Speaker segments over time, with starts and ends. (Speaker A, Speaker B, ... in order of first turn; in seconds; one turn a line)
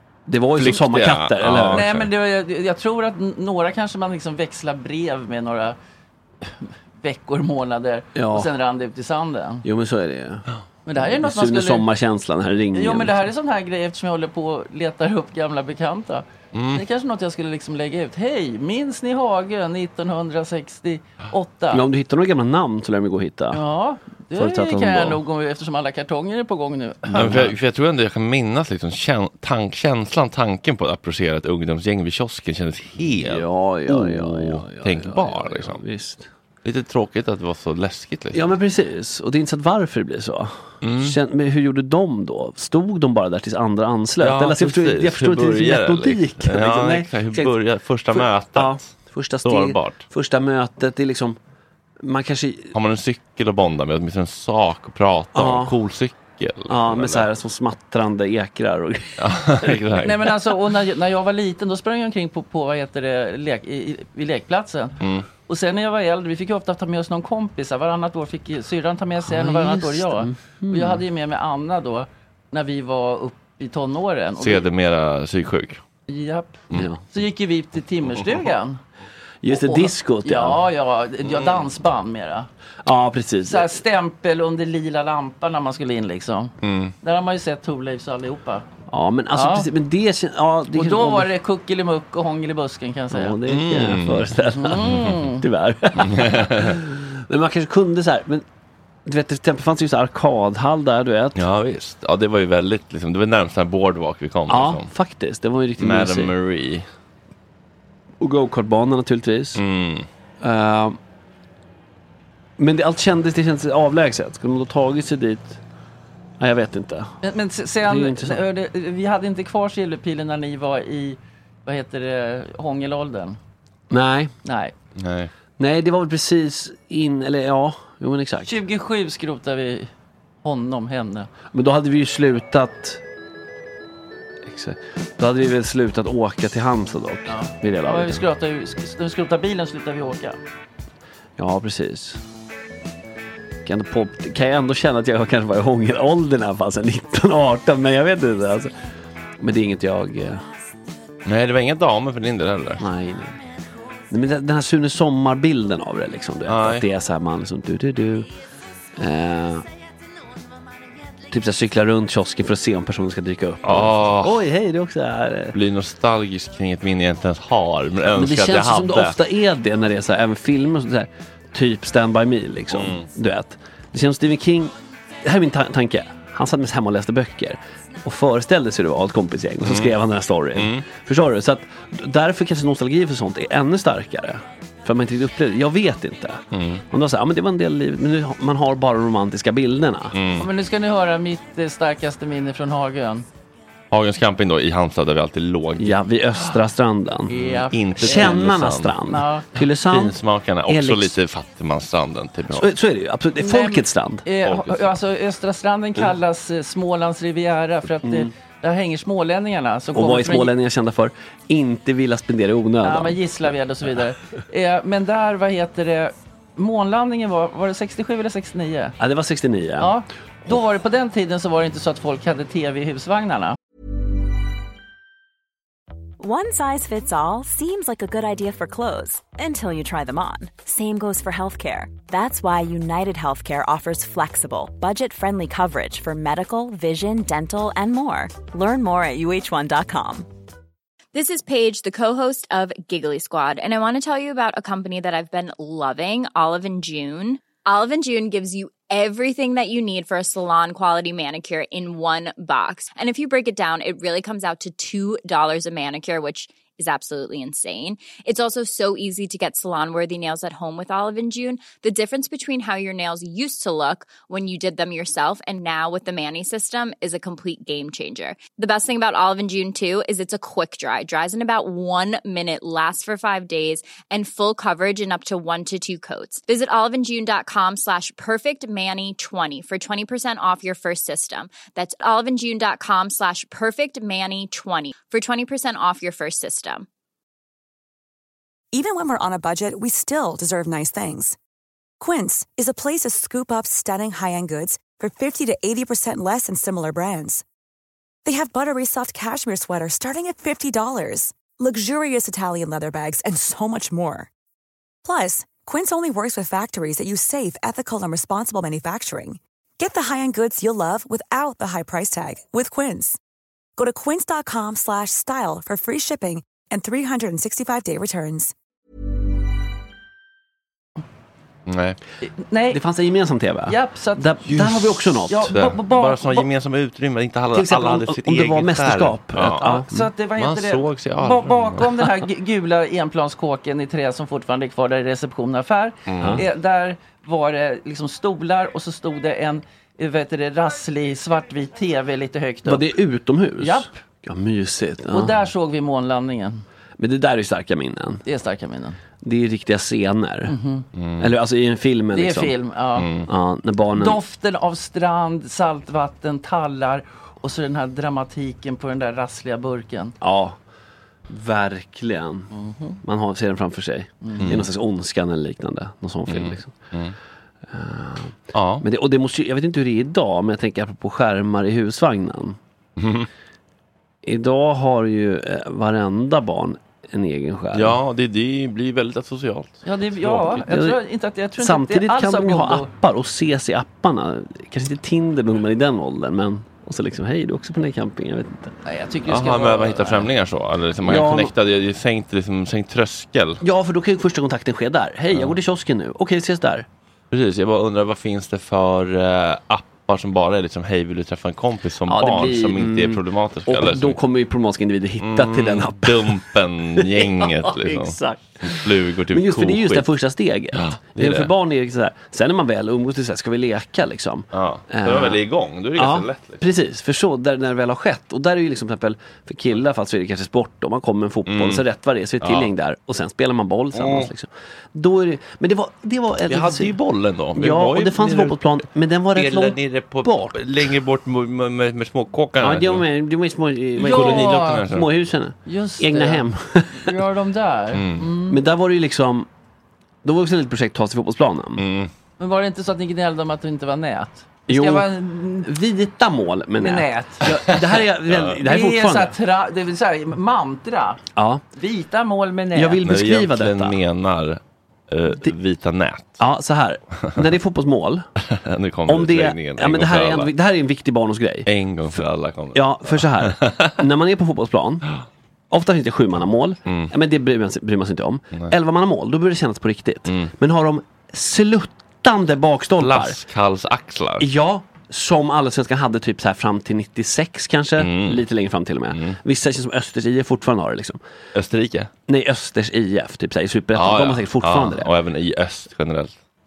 Speaker A: 0.3-1.9
Speaker B: 0.6-2.1
Speaker C: 1.7-5.8
Speaker C: 6.5-9.7
Speaker A: 8.1-8.5
Speaker A: 9.6-10.4
Speaker C: 10.8-11.9
Speaker A: 10.9-13.3
Speaker C: 12.7-21.8
Speaker B: 16.5-16.8
Speaker A: 21.7-23.6
Speaker C: 23.5-27.4
Speaker A: 24.4-25.2
Speaker B: 27.1-35.8
Speaker A: 27.2-27.5
Speaker A: 33.1-36.3
Speaker B: 36.6-38.5
Speaker A: 38.3-47.5
Speaker B: 40.8-41.2
Speaker B: 44.2-50.0
Speaker A: 48.1-51.4
Speaker A: 52.0-52.7
Speaker B: 52.7-57.3
Speaker A: 55.3-55.8
Speaker A: 56.7-59.7
Speaker B: 59.2-60.3
Speaker C: 60.0-74.6
Speaker B: 65.0-65.3
Speaker A: 69.2-71.0
Speaker B: 74.4-75.8
Speaker C: 76.1-78.8
Speaker A: 76.7-77.0
Speaker A: 79.4-80.6
Speaker C: 79.5-82.5
Speaker B: 81.3-81.5
Speaker A: 82.8-83.7
Speaker C: 83.4-88.7
Speaker B: 86.6-86.9
Speaker A: 88.9-91.3
Speaker C: 89.3-89.7
Speaker C: 90.7-93.4
Speaker A: 93.1-98.4
Speaker B: 93.5-95.1
Speaker C: 94.5-95.4
Speaker B: 96.0-96.7
Speaker A: 99.0-101.4
Speaker B: 101.3-104.9
Speaker A: 104.5-106.3
Speaker B: 105.8-106.8
Speaker A: 108.2-109.6
Speaker B: 109.5-110.0
Speaker A: 110.4-111.0
Speaker A: 112.6-115.6
Speaker A: 116.4-117.1
Speaker C: 117.2-123.4
Speaker A: 117.8-118.4
Speaker A: 123.9-124.3
Speaker C: 124.4-124.7
Speaker B: 125.0-125.3
Speaker A: 125.6-128.6
Speaker C: 128.4-129.9
Speaker C: 130.4-131.3
Speaker A: 131.5-133.0
Speaker A: 134.4-138.2
Speaker C: 137.3-140.4
Speaker A: 141.4-142.2
Speaker A: 143.6-148.7
Speaker A: 149.4-150.4
Speaker B: 151.2-152.8
Speaker A: 152.8-153.4
Speaker A: 154.1-158.3
Speaker B: 156.5-156.8
Speaker A: 159.0-159.7
Speaker A: 161.3-165.5
Speaker B: 163.6-164.4
Speaker B: 165.5-169.2
Speaker A: 168.1-174.7
Speaker B: 172.7-173.1
Speaker A: 175.2-190.2
Speaker B: 179.6-179.9
Speaker B: 180.5-180.8
Speaker B: 186.5-186.8
Speaker B: 190.1-190.5
Speaker C: 190.4-193.2
Speaker B: 193.9-196.0
Speaker A: 195.8-197.3
Speaker C: 197.3-198.4
Speaker B: 197.3-199.0
Speaker A: 198.0-201.2
Speaker C: 199.1-199.5
Speaker B: 199.9-202.7
Speaker A: 202.5-204.2
Speaker C: 203.4-210.5
Speaker B: 204.4-204.9
Speaker A: 208.0-208.3
Speaker A: 209.9-213.2
Speaker C: 212.8-219.0
Speaker A: 219.0-219.9
Speaker C: 219.8-223.6
Speaker D: 226.2-240.2
Speaker E: 241.1-286.9
Speaker D: 288.7-291.4
Speaker D: 292.0-297.4
Speaker D: 298.2-304.3
Speaker D: 305.0-313.2
Speaker D: 313.8-318.5
Speaker B: 321.7-322.0
Speaker C: 322.5-322.8
Speaker A: 322.7-325.6
Speaker C: 323.7-324.4
Speaker B: 324.5-331.9
Speaker C: 325.3-326.5
Speaker A: 327.5-329.9
Speaker C: 329.5-342.9
Speaker B: 336.1-336.4
Speaker A: 336.2-336.5
Speaker A: 342.6-345.3
Speaker C: 343.6-343.9
Speaker C: 345.1-346.6
Speaker A: 347.0-348.2
Speaker C: 348.2-349.0
Speaker A: 349.2-350.5
Speaker C: 350.4-350.9
Speaker B: 350.9-351.3
Speaker A: 351.2-352.5
Speaker C: 352.1-353.1
Speaker B: 353.0-353.3
Speaker A: 353.3-354.2
Speaker C: 353.9-360.1
Speaker A: 360.2-360.6
Speaker A: 361.3-362.5
Speaker C: 362.5-363.0
Speaker A: 363.0-366.7
Speaker C: 364.2-364.5
Speaker B: 364.4-364.7
Speaker B: 366.3-367.1
Speaker A: 367.7-372.6
Speaker B: 368.5-368.8
Speaker B: 373.0-373.3
Speaker A: 374.2-378.0
Speaker B: 377.7-380.6
Speaker C: 379.8-382.9
Speaker A: 380.6-381.0
Speaker A: 381.6-388.7
Speaker C: 388.8-390.3
Speaker B: 389.3-393.6
Speaker A: 391.0-391.5
Speaker A: 393.6-396.9
Speaker B: 397.3-404.2
Speaker A: 402.1-415.4
Speaker B: 405.2-410.1
Speaker B: 410.7-411.5
Speaker B: 414.5-416.6
Speaker A: 415.9-426.9
Speaker B: 421.5-421.8
Speaker B: 422.4-422.7
Speaker B: 423.9-424.3
Speaker B: 426.5-428.6
Speaker A: 427.5-430.9
Speaker B: 429.3-433.0
Speaker A: 432.6-437.1
Speaker C: 434.0-434.9
Speaker B: 434.0-435.1
Speaker C: 435.6-438.6
Speaker B: 437.9-438.3
Speaker A: 438.5-439.5
Speaker A: 440.2-441.8
Speaker B: 441.8-442.1
Speaker C: 442.4-445.7
Speaker A: 444.7-445.1
Speaker A: 445.6-449.3
Speaker C: 446.8-447.6
Speaker B: 447.5-448.6
Speaker C: 448.6-451.2
Speaker A: 451.4-451.6
Speaker C: 451.7-453.0
Speaker A: 452.7-454.0
Speaker B: 453.0-456.4
Speaker A: 456.4-458.2
Speaker B: 458.6-460.5
Speaker A: 459.1-462.2
Speaker B: 461.7-463.9
Speaker A: 462.7-465.0
Speaker A: 465.7-473.4
Speaker B: 466.9-467.1
Speaker B: 470.3-470.5
Speaker B: 473.0-474.5
Speaker A: 474.4-481.2
Speaker B: 478.0-478.4
Speaker B: 479.1-479.4
Speaker B: 481.5-482.1
Speaker A: 482.3-485.1
Speaker B: 483.9-486.4